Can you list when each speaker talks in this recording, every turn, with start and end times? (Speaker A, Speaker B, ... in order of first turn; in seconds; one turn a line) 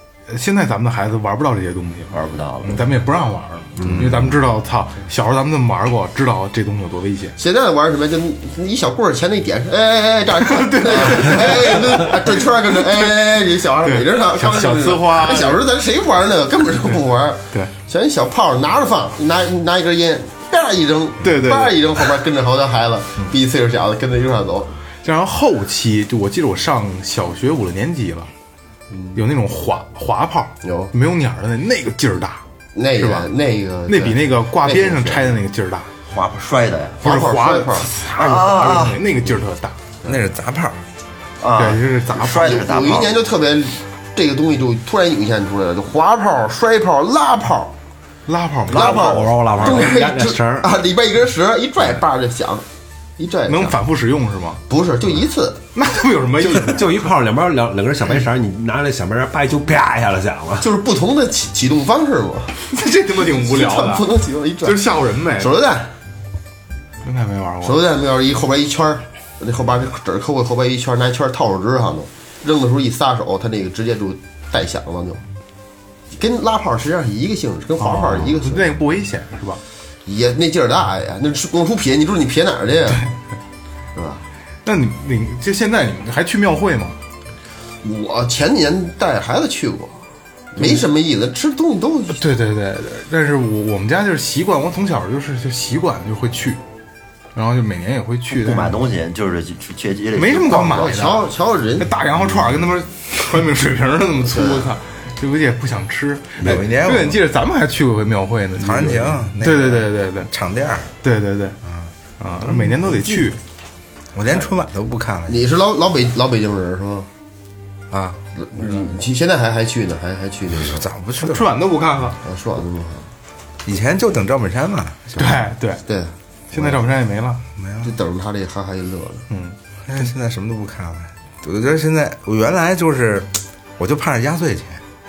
Speaker A: 0.3-7.4
Speaker B: 2.1-2.8
Speaker C: 3.8-4.3
Speaker D: 7.4-24.7
Speaker A: 10.5-12.1
Speaker A: 13.8-15.6
Speaker A: 21.2-21.8
Speaker A: 25.0-28.3
Speaker A: 29.1-32.4
Speaker D: 30.6-30.9
Speaker D: 32.8-35.3
Speaker A: 33.0-33.3
Speaker A: 33.9-35.9
Speaker B: 36.1-37.0
Speaker D: 37.0-37.9
Speaker A: 37.0-39.8
Speaker B: 38.1-39.0
Speaker E: 40.0-40.8
Speaker B: 41.4-43.1
Speaker A: 41.6-43.0
Speaker D: 42.4-47.8
Speaker A: 48.3-49.1
Speaker D: 48.7-52.6
Speaker C: 48.8-50.4
Speaker E: 49.9-50.6
Speaker D: 53.2-53.8
Speaker A: 53.5-54.6
Speaker D: 54.7-55.6
Speaker A: 55.8-56.9
Speaker C: 56.4-60.7
Speaker D: 60.6-62.5
Speaker A: 62.6-65.6
Speaker D: 63.4-65.9
Speaker A: 67.0-67.8
Speaker D: 67.6-75.2
Speaker D: 76.1-78.7
Speaker A: 77.8-79.6
Speaker D: 80.1-83.0
Speaker D: 83.9-84.2
Speaker A: 84.6-87.0
Speaker D: 87.8-90.0
Speaker D: 90.5-92.2
Speaker A: 92.1-96.6
Speaker A: 97.3-98.8
Speaker B: 98.3-101.2
Speaker A: 100.2-101.2
Speaker D: 100.8-101.9
Speaker A: 101.8-110.3
Speaker D: 104.3-104.7
Speaker E: 106.4-107.2
Speaker E: 108.6-110.9
Speaker A: 111.0-111.6
Speaker E: 111.7-113.3
Speaker A: 112.2-113.4
Speaker E: 114.1-115.4
Speaker D: 115.3-117.1
Speaker E: 117.9-118.9
Speaker D: 118.4-120.9
Speaker E: 120.6-121.5
Speaker A: 121.2-122.2
Speaker D: 122.2-123.1
Speaker E: 123.6-125.2
Speaker A: 125.2-125.8
Speaker D: 125.9-126.7
Speaker A: 126.5-127.4
Speaker E: 127.6-127.9
Speaker D: 127.8-129.3
Speaker A: 129.3-129.6
Speaker E: 129.9-134.8